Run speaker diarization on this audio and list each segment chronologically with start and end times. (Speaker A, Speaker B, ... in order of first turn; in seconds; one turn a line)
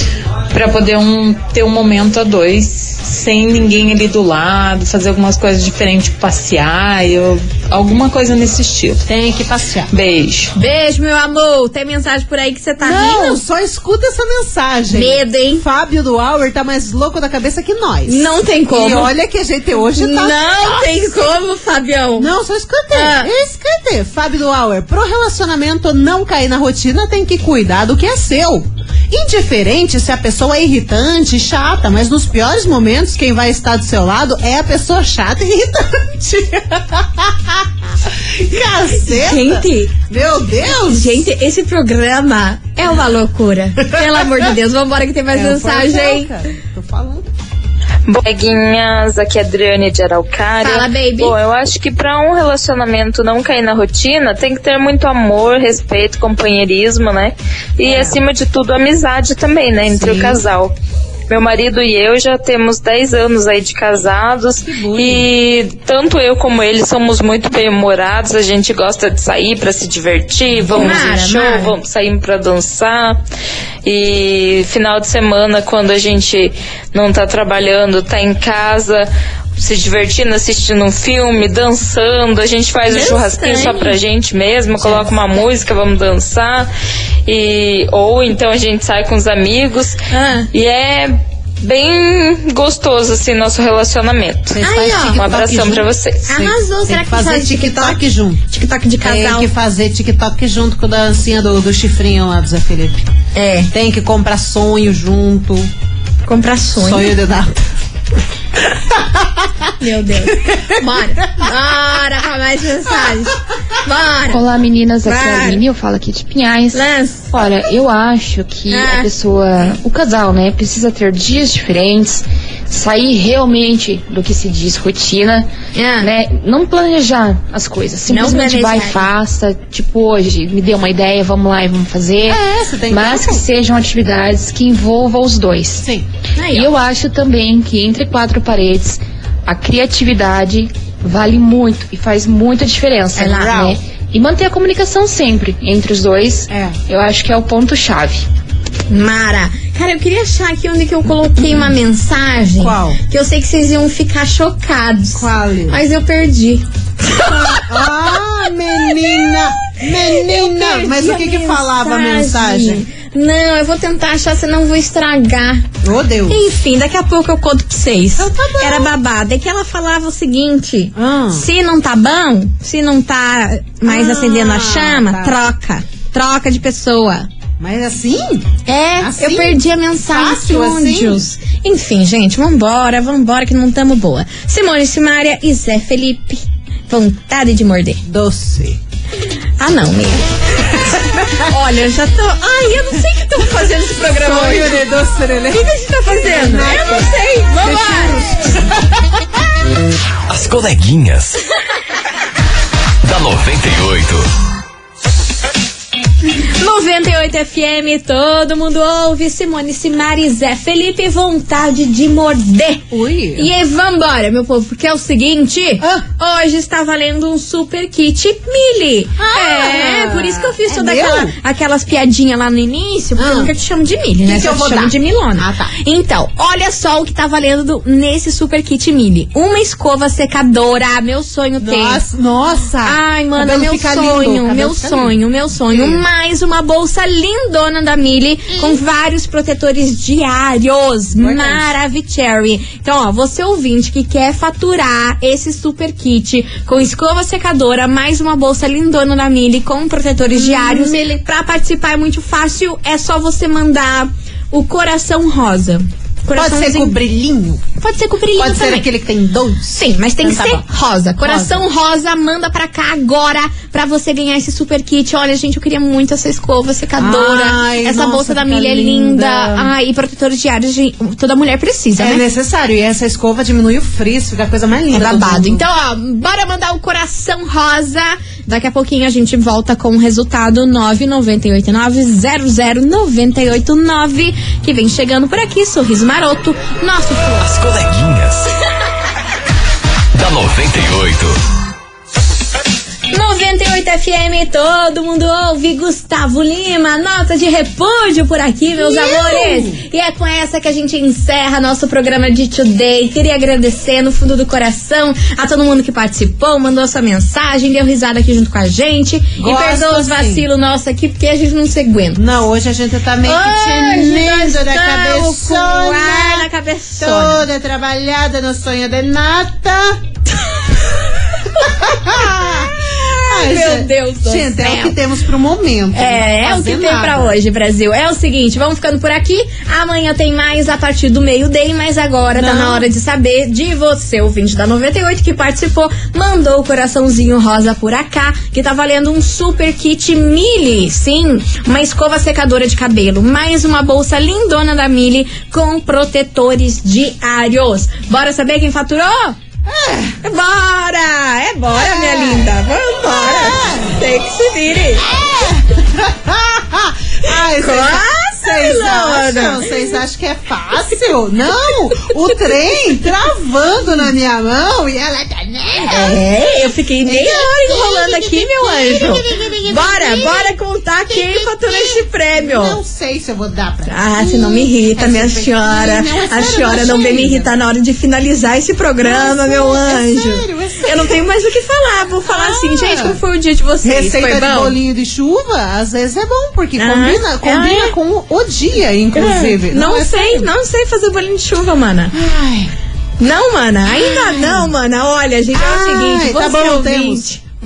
Speaker A: 0.5-9.1
Speaker B: 9.1-9.9
Speaker A: 9.9-10.5
Speaker C: 10.5-13.4
Speaker B: 12.8-21.2
Speaker C: 14.9-15.6
Speaker C: 18.1-19.1
Speaker C: 19.9-22.3
Speaker B: 22.1-41.2
Speaker C: 22.9-23.3
Speaker C: 39.0-40.0
Speaker C: 40.8-46.3
Speaker B: 43.9-44.2
Speaker B: 45.3-47.3
Speaker D: 48.1-60.7
Speaker C: 50.6-51.3
Speaker B: 57.8-58.2
Speaker B: 59.8-60.4
Speaker D: 61.3-73.2
Speaker B: 64.6-65.3
Speaker B: 70.6-71.1
Speaker C: 70.7-71.7
Speaker D: 73.8-86.7
Speaker C: 82.9-84.0
Speaker D: 87.2-90.0
Speaker C: 90.1-90.5
Speaker D: 90.5-96.3
Speaker B: 94.5-98.4
Speaker C: 94.6-95.2
Speaker C: 96.3-99.5
Speaker B: 99.0-103.1
Speaker C: 103.3-103.7
Speaker B: 103.7-105.7
Speaker C: 106.2-107.1
Speaker B: 106.8-107.7
Speaker B: 108.5-109.7
Speaker C: 109.8-114.4
Speaker B: 110.3-110.8
Speaker B: 113.0-113.3
Speaker E: 114.2-135.9
Speaker C: 115.0-115.6
Speaker C: 116.7-117.3
Speaker C: 118.7-119.1
Speaker C: 125.7-126.1
Speaker C: 128.1-129.1
Speaker B: 132.3-133.4
Speaker B: 135.8-136.1
Speaker C: 136.3-136.7
Speaker E: 136.4-148.2
Speaker C: 143.2-143.7
Speaker B: 143.2-143.8
Speaker B: 146.5-146.8
Speaker C: 148.9-157.9
Speaker B: 152.6-153.0
Speaker B: 155.1-155.8
Speaker B: 157.5-162.8
Speaker C: 158.8-165.7
Speaker B: 165.8-166.4
Speaker C: 166.3-177.3
Speaker B: 168.2-168.9
Speaker B: 170.9-171.5
Speaker B: 173.8-175.4
Speaker B: 177.6-178.5
Speaker C: 178.7-188.0
Speaker B: 179.0-181.2
Speaker B: 188.0-188.8
Speaker C: 189.6-190.7
Speaker B: 190.6-191.5
Speaker C: 191.4-194.8
Speaker B: 194.0-199.0
Speaker C: 195.5-198.3
Speaker F: 200.3-201.4
Speaker F: 203.0-204.3
Speaker C: 206.6-232.0
Speaker B: 212.9-213.5
Speaker B: 215.8-216.1
Speaker B: 219.2-221.3
Speaker B: 223.2-223.5
Speaker B: 224.2-225.7
Speaker B: 231.6-236.0
Speaker C: 232.8-256.9
Speaker B: 241.2-241.7
Speaker B: 250.2-251.2
Speaker B: 256.3-257.6
Speaker C: 257.8-258.9
Speaker B: 258.4-260.6
Speaker C: 259.7-272.2
Speaker B: 261.2-261.6
Speaker B: 267.0-269.7
Speaker B: 272.0-275.6
Speaker C: 274.9-287.5
Speaker F: 287.4-288.5
Speaker F: 290.1-291.4
Speaker C: 293.1-312.2
Speaker B: 298.7-299.8
Speaker B: 309.4-310.4
Speaker B: 312.1-316.5
Speaker C: 313.2-317.4
Speaker B: 317.0-320.0
Speaker B: 321.6-327.4
Speaker C: 321.6-325.0
Speaker C: 325.9-349.4
Speaker B: 332.3-332.9
Speaker B: 349.6-350.2
Speaker C: 350.2-355.1
Speaker B: 351.7-354.1
Speaker B: 355.0-366.2
Speaker C: 357.3-359.9
Speaker C: 362.0-362.3
Speaker C: 365.9-372.8
Speaker B: 367.0-370.6
Speaker B: 371.1-377.5
Speaker C: 373.9-384.8
Speaker B: 379.0-381.2
Speaker B: 382.2-383.2
Speaker B: 383.8-390.5
Speaker C: 386.8-387.9
Speaker C: 389.1-392.1
Speaker B: 392.1-392.7
Speaker C: 393.2-397.4
Speaker B: 393.9-394.7
Speaker B: 395.5-397.2